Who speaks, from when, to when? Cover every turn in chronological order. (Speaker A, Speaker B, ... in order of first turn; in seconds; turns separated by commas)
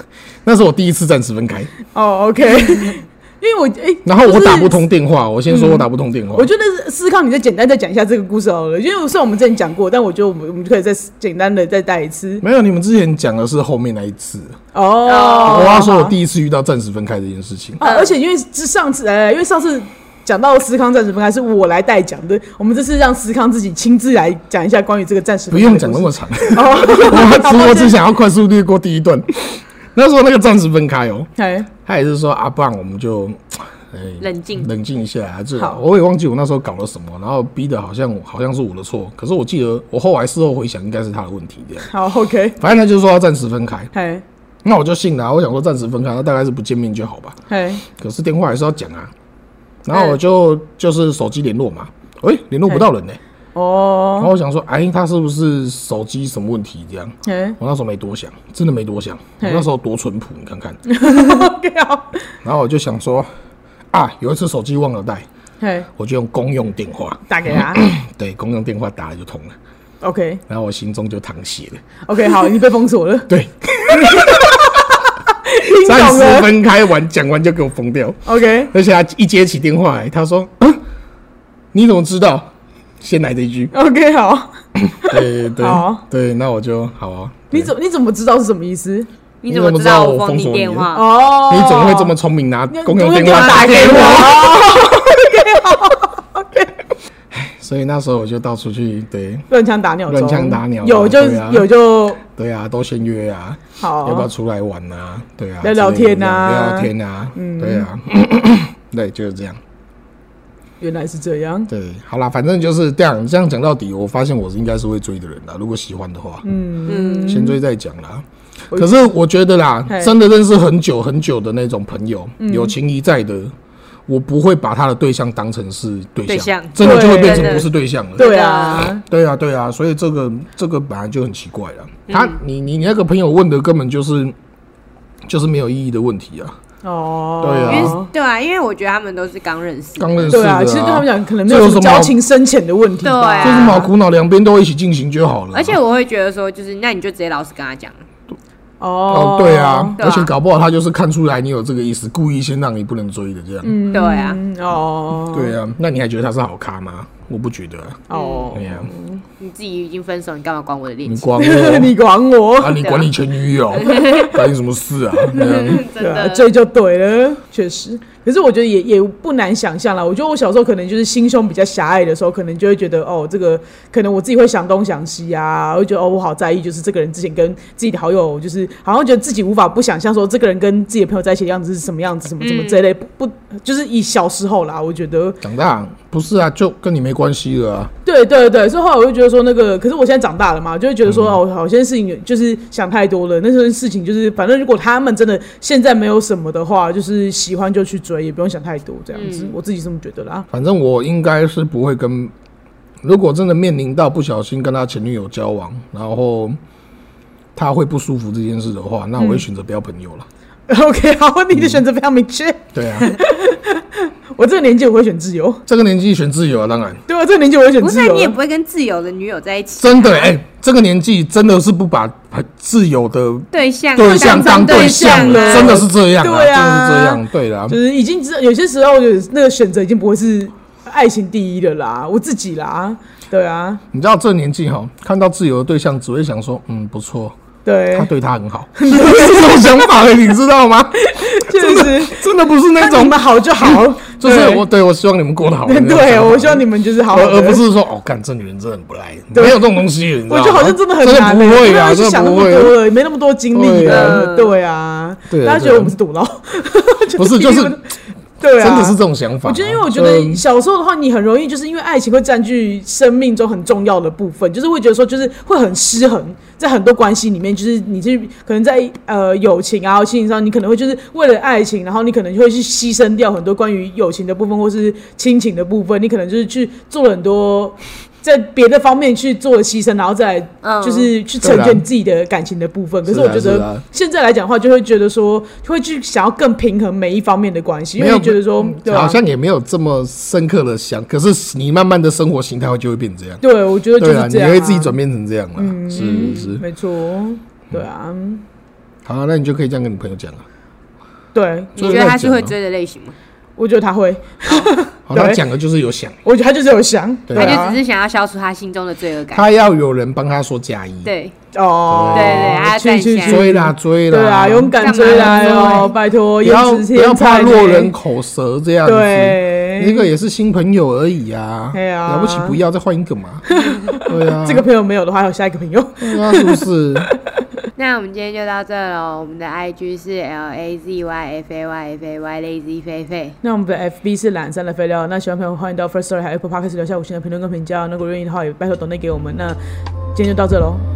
Speaker A: 0.4-1.7, Speaker B: 1.9-4.8, Speaker A: 4.0-6.5, Speaker B: 5.5-12.4, Speaker A: 12.4-14.6, Speaker B: 14.7-16.1, Speaker C: 15.0-15.9, Speaker A: 15.4-17.8, Speaker B: 17.8-27.9, Speaker C: 17.8-18.1, Speaker A: 25.5-41.9, Speaker B: 31.4-31.7, Speaker C: 34.2-34.7, Speaker B: 41.8-42.6, Speaker A: 42.6-43.9, Speaker B: 43.9-44.2, Speaker A: 44.6-49.1, Speaker B: 47.5-47.8, Speaker A: 49.8-53.2, Speaker B: 53.5-54.3, Speaker A: 54.2-60.8, Speaker B: 57.2-57.6, Speaker B: 59.4-59.7, Speaker B: 60.9-62.3, Speaker A: 62.4-63.3, Speaker A: 63.9-65.3, Speaker B: 65.6-65.9, Speaker A: 65.9-69.5, Speaker B: 67.3-67.8, Speaker B: 70.0-70.4, Speaker A: 70.5-71.8, Speaker B: 72.0-73.3, Speaker A: 73.3-74.9, Speaker B: 73.9-76.5, Speaker A: 75.8-80.8, Speaker B: 78.2-78.7, Speaker A: 81.7-83.7, Speaker B: 83.7-84.5, Speaker A: 85.0-87.7, Speaker B: 85.0-86.0, Speaker B: 87.5-89.1, Speaker C: 89.4-91.0, Speaker A: 89.5-95.0, Speaker B: 90.9-92.1, Speaker B: 92.7-96.7, Speaker C: 93.2-94.4, Speaker A: 97.3-99.5, Speaker B: 99.5-102.2, Speaker A: 100.1-101.7, Speaker A: 102.2-109.6, Speaker B: 103.8-104.3, Speaker B: 105.6-107.9, Speaker B: 110.8-111.7, Speaker A: 111.7-116.4, Speaker B: 116.4-117.6, Speaker C: 116.9-117.5, Speaker A: 117.2-123.5, Speaker B: 118.7-119.1, Speaker B: 122.4-122.7, Speaker A: 124.1-134.3, Speaker C: 126.3-128.9, Speaker B: 126.8-129.0, Speaker C: 132.1-132.3, Speaker A: 135.2-136.6, Speaker B: 136.8-138.1, Speaker A: 137.4-138.0, Speaker C: 137.6-140.4, Speaker A: 140.0-142.1, Speaker B: 140.3-143.9, Speaker C: 143.0-143.9, Speaker A: 143.4-145.8, Speaker C: 145.5-147.9, Speaker B: 148.8-150.0, Speaker A: 149.1-153.8, Speaker C: 150.0-150.3, Speaker B: 153.6-155.5, Speaker C: 153.9-154.4, Speaker A: 155.3-158.0, Speaker B: 158.1-159.2, Speaker C: 158.1-158.6, Speaker A: 158.5-158.9, Speaker C: 159.4-161.3, Speaker A: 161.1-161.9, Speaker B: 161.4-162.9, Speaker A: 162.6-165.8, Speaker C: 162.8-163.1, Speaker C: 163.7-164.4, Speaker C: 165.3-166.5, Speaker B: 165.4-185.4, Speaker C: 182.4-182.8, Speaker A: 185.4-187.9, Speaker B: 188.0-200.5, Speaker A: 191.1-191.4, Speaker C: 199.1-199.5, Speaker A: 200.5-202.3, Speaker A: 203.0-206.6, Speaker A: 207.5-210.3, Speaker B: 209.2-209.4, Speaker B: 210.7-215.6, Speaker A: 211.5-211.8, Speaker A: 212.7-213.1, Speaker A: 215.7-217.0, Speaker B: 217.1-218.3, Speaker C: 217.8-220.3, Speaker A: 219.8-227.8, Speaker C: 223.5-225.8, Speaker B: 224.6-233.8, Speaker A: 233.9-237.4, Speaker B: 237.6-238.1, Speaker A: 237.9-252.8, Speaker B: 238.8-240.0, Speaker B: 241.0-242.2, Speaker B: 242.7-244.6, Speaker B: 245.7-247.6, Speaker B: 249.3-249.7, Speaker B: 250.3-257.9, Speaker A: 253.5-254.3, Speaker C: 253.8-254.5, Speaker A: 255.3-255.9, Speaker A: 257.2-257.8, Speaker B: 258.4-289.2, Speaker A: 258.6-260.4, Speaker C: 280.6-281.1, Speaker A: 281.4-281.8, Speaker A: 283.1-283.8, Speaker A: 288.0-293.4, Speaker B: 293.4-294.9, Speaker A: 293.9-296.6, Speaker B: 295.6-298.4, Speaker C: 295.9-296.5, Speaker A: 299.0-300.4, Speaker B: 301.3-301.7, Speaker A: 301.8-302.5, Speaker C: 301.8-303.1, Speaker B: 303.6-305.4, Speaker A: 305.1-306.2, Speaker B: 306.2-307.8, Speaker A: 307.3-307.6, Speaker C: 307.3-309.4, Speaker A: 309.3-311.1, Speaker C: 311.0-311.3, Speaker B: 311.5-317.9, Speaker A: 311.9-315.7, Speaker C: 312.1-313.4, Speaker C: 314.8-315.9, Speaker A: 316.4-324.6, Speaker B: 318.8-320.1, Speaker B: 321.7-322.6, Speaker B: 323.5-326.6, Speaker A: 326.0-327.1, Speaker C: 327.8-333.4, Speaker B: 333.4-339.6, Speaker B: 340.1-340.8